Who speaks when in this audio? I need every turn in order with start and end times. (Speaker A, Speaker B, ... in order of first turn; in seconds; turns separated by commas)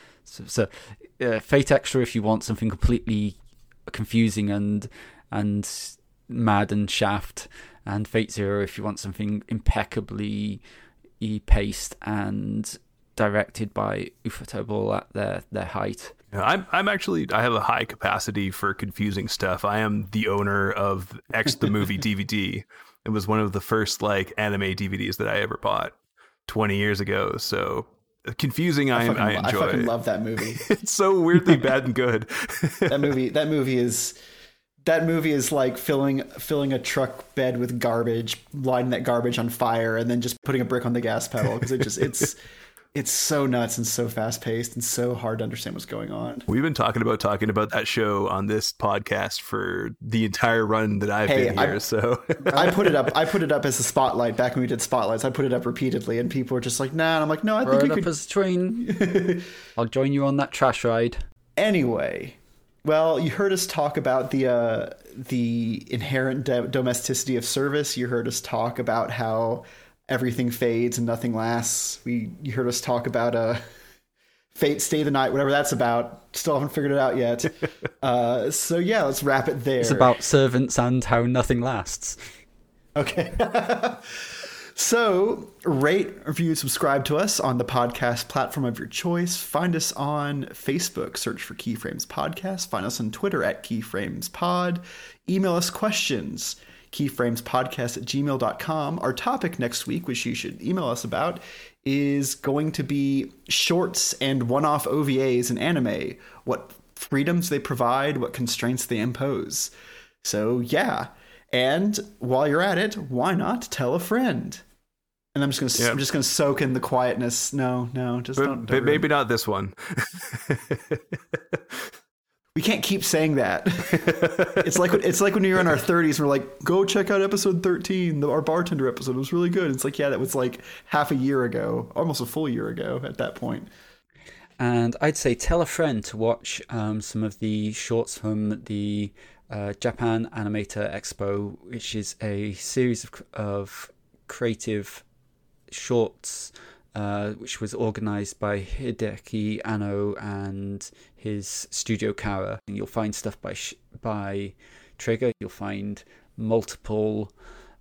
Speaker A: 0.2-10.6, Speaker A: 11.2-16.1, Speaker B: 16.3-26.0, Speaker B: 26.5-29.9, Speaker C: 28.9-30.7, Speaker B: 30.5-33.0, Speaker C: 32.9-34.2, Speaker C: 34.9-42.4, Speaker C: 42.9-46.5, Speaker B: 46.5-53.0, Speaker C: 51.3-51.8, Speaker C: 52.5-58.1, Speaker A: 57.6-59.1, Speaker C: 58.8-59.5, Speaker A: 59.8-61.2, Speaker C: 61.6-73.7, Speaker C: 74.5-80.2, Speaker A: 79.8-82.2, Speaker C: 83.0-109.7, Speaker C: 110.2-114.6, Speaker C: 115.3-119.1, Speaker B: 118.4-121.9, Speaker C: 122.5-133.7, Speaker B: 123.9-124.9, Speaker A: 134.6-145.1, Speaker A: 145.7-157.3